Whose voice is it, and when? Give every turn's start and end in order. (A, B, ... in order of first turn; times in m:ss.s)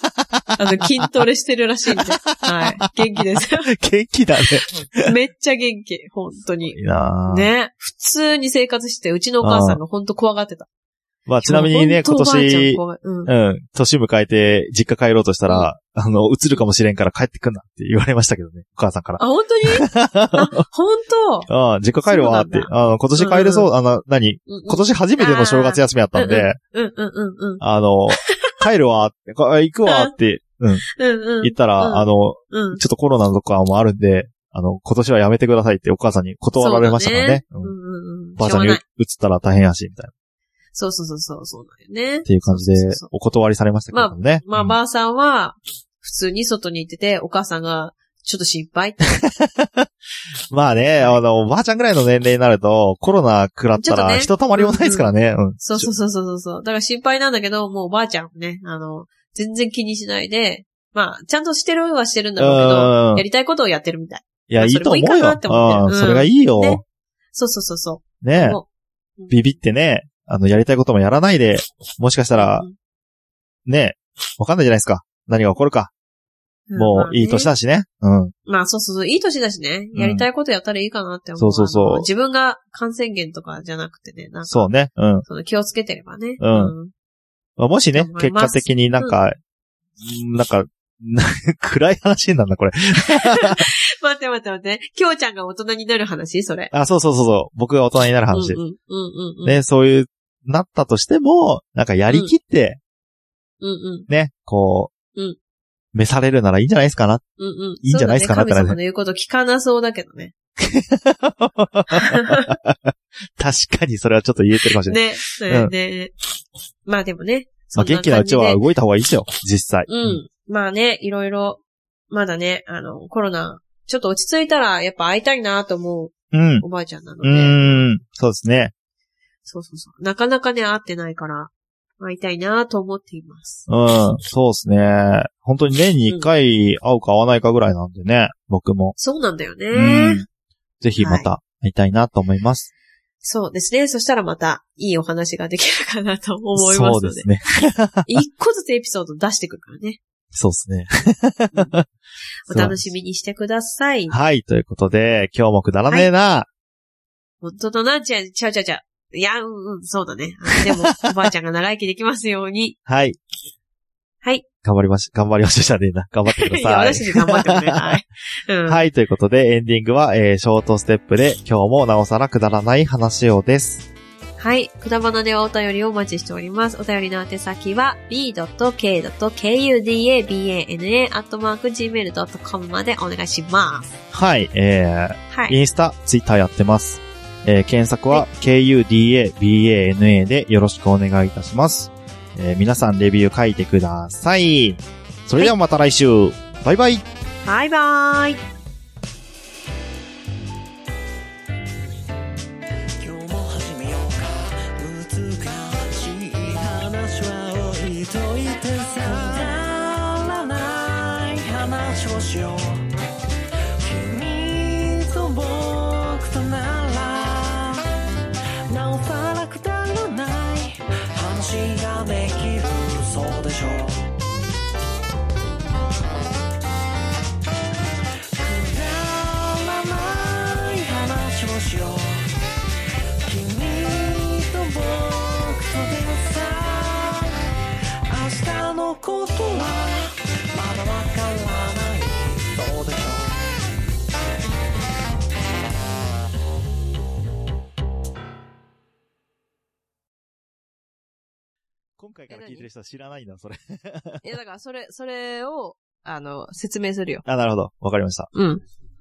0:00.6-0:03.7 A
0:03.7-0:05.1 B
0:05.0-0:10.7 A
0:06.6-0:07.5 B
0:09.4-0:09.8 B
0:11.3-0:19.2 B
0:11.4-0:13.3 A
0:19.2-0:21.5 A
0:19.8-0:20.5 B
0:21.5-0:26.6 B
0:22.1-0:23.7 A
0:24.5-0:28.5 A
0:27.6-0:30.9 B
0:29.9-0:30.1 A
0:30.9-0:32.8 A
0:31.4-0:37.7 B
0:36.6-0:38.8 A
0:38.4-0:40.1 B
0:40.7-0:43.1 A
0:42.2-0:44.8 B
0:43.9-0:49.2 A
0:49.6-0:49.9 B
0:50.5-0:55.9 B
0:53.8-0:55.1 A
0:55.6-1:06.8 A
1:02.4-1:03.2 B
1:04.5-1:06.8 B
1:07.3-1:08.6 A
1:08.2-1:08.6 B
1:09.3-1:12.6 B
1:12.4-1:12.7 A
1:13.6-1:15.9 B
1:16.7-1:17.5 A
1:16.8-1:18.3 B
1:18.5-1:24.7 A
1:19.9-1:20.2 B
1:21.4-1:22.1 B
1:24.5-1:25.2 B
1:25.2-1:26.9 A
1:26.4-1:26.7 B
1:27.6-1:29.4 B
1:27.9-1:29.2 A
1:30.0-1:33.6 B
1:33.0-1:36.7 A
1:36.7-1:38.6 B
1:38.3-1:39.6 A
1:39.4-1:42.8 B
1:43.6-1:44.1 A
1:44.1-1:44.9 B
1:45.9-1:47.2 B
1:47.4-1:50.3 A
1:47.8-1:48.8 B
1:50.6-1:55.7 B
1:52.0-1:52.5 A
1:54.8-1:56.1 A
1:56.8-1:58.6 A
1:57.8-2:00.2 B
1:59.9-2:07.9 A
2:06.3-2:06.6 B
2:07.2-2:08.7 B
2:09.4-2:13.7 A
2:13.7-2:19.0 B
2:19.0-2:20.2 A
2:19.7-2:20.2 B
2:20.8-2:22.7 B
2:21.0-2:21.3 A
2:23.2-2:27.3 A
2:26.6-2:28.1 B
2:28.1-2:30.0 A
2:30.3-2:31.8 B
2:32.5-2:34.2 A
2:32.5-2:32.8 B
2:34.1-2:36.5 B
2:37.4-2:42.8 A
2:42.9-2:43.2 B
2:44.6-2:48.0 B
2:46.3-2:48.8 A
2:48.7-2:53.8 B
2:54.4-3:03.9 A
3:04.1-3:17.0 B
3:05.3-3:05.6 A
3:17.4-3:18.4 A
3:23.0-3:32.9 C
3:33.8-3:37.9 C
3:38.7-3:44.0 C
3:48.4-3:52.4 C
3:53.2-3:57.3 C
3:58.1-4:03.5 C
4:12.0-4:14.2 B
4:12.3-4:12.7 A
4:14.2-4:17.2 A
4:17.2-4:18.3 B
4:18.3-4:18.6 A